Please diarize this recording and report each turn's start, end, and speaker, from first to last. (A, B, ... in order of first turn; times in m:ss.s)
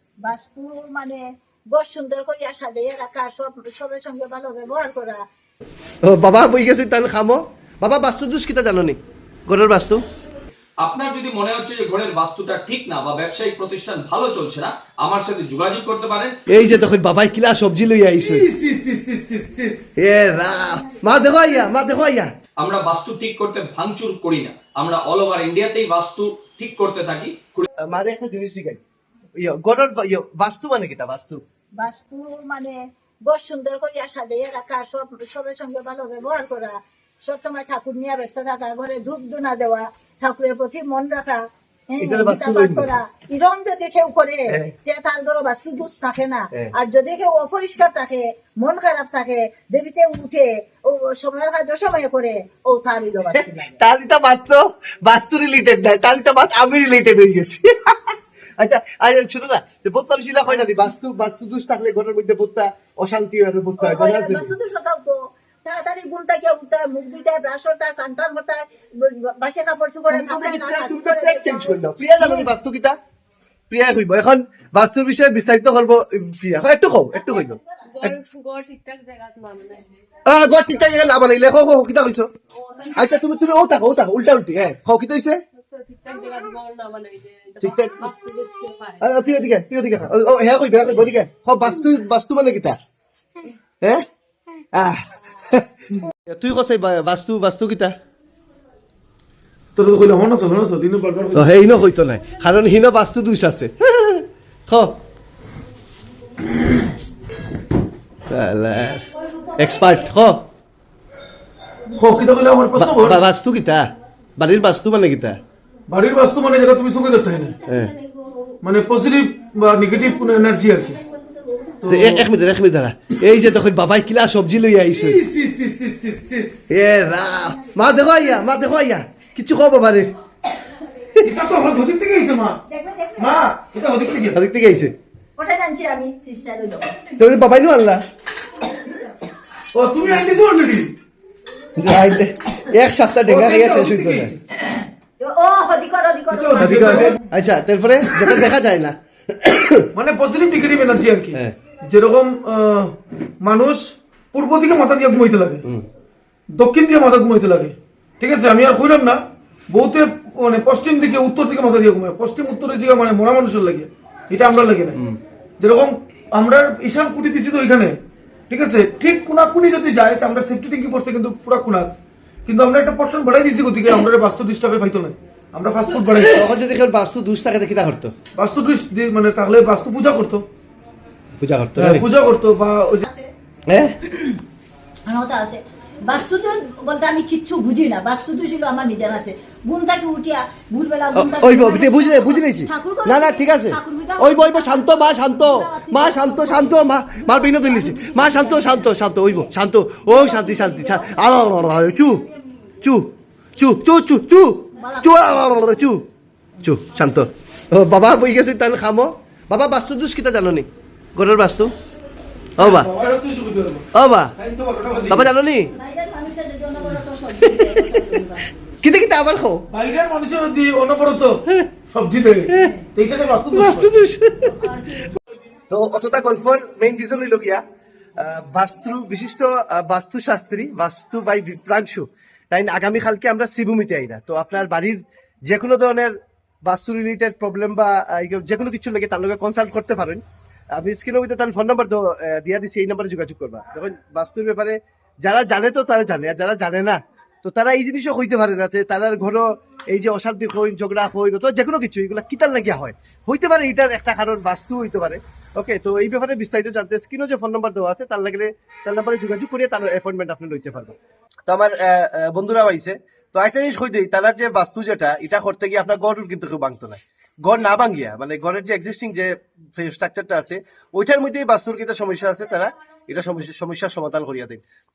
0:00.2-0:05.2 A
0:06.0-0:10.0 B
0:10.8-0:16.4 C
0:16.5-0:18.5 B
0:18.2-0:19.9 D
0:20.0-0:22.3 B
0:22.6-0:27.7 C
0:27.8-0:28.8 B
0:29.4-0:31.4 B
0:31.8-0:53.8 A
0:42.0-0:42.9 B
0:53.3-1:04.5 B
1:03.8-1:12.5 A
1:10.1-1:13.0 B
1:13.7-1:18.1 B
1:18.0-1:19.9 E
1:20.2-1:22.3 B
1:22.7-1:23.0 E
1:22.9-1:25.4 B
1:25.7-1:29.0 E
1:27.6-1:28.1 B
1:29.0-1:32.8 B
1:34.7-1:35.7 B
1:36.3-1:37.9 B
1:39.7-1:41.7 D
1:41.3-1:45.0 B
1:48.3-1:49.0 B
1:49.6-1:50.4 B
1:51.9-1:53.2 D
1:52.8-1:55.4 B
1:55.9-1:57.6 D
1:57.6-1:57.9 B
1:58.6-2:01.0 D
2:01.8-2:02.3 D
2:01.9-2:05.2 B
2:04.9-2:06.7 D
2:06.7-2:10.1 B
2:11.2-2:12.6 D
2:12.7-2:13.3 A
2:13.2-2:14.4 D
2:14.3-2:14.9 B
2:15.4-2:17.1 A
2:17.2-2:18.0 B
2:18.7-2:19.0 A
2:19.7-2:20.9 D
2:21.8-2:24.4 B
2:23.3-2:24.4 D
2:24.6-2:27.2 A
2:26.3-2:27.2 D
2:26.6-2:29.9 B
2:29.9-2:35.6 D
2:36.5-2:45.0 D
2:45.6-2:51.9 D
2:52.4-2:56.5 D
2:56.2-2:58.1 B
2:58.4-3:00.4 D
3:01.4-3:02.0 B
3:01.8-3:03.1 D
3:03.7-3:04.0 B
3:04.1-3:04.4 A
3:05.1-3:19.4 A
3:11.1-3:22.2 B
3:20.1-3:21.3 A
3:22.8-3:26.0 B
3:24.8-3:25.2 A
3:26.6-3:31.7 B
3:32.6-3:32.9 B
3:32.6-3:33.8 D
3:33.9-3:34.3 B
3:34.4-3:35.3 D
3:35.1-3:35.7 B
3:35.7-3:38.5 A
3:37.4-3:38.0 B
3:38.8-3:39.6 B
3:39.7-3:43.9 D
3:42.5-3:42.8 B
3:43.5-3:44.6 B
3:44.5-3:45.1 A
3:45.7-3:47.6 B
3:48.2-3:56.1 B
3:56.6-4:00.2 B
4:00.8-4:34.6 B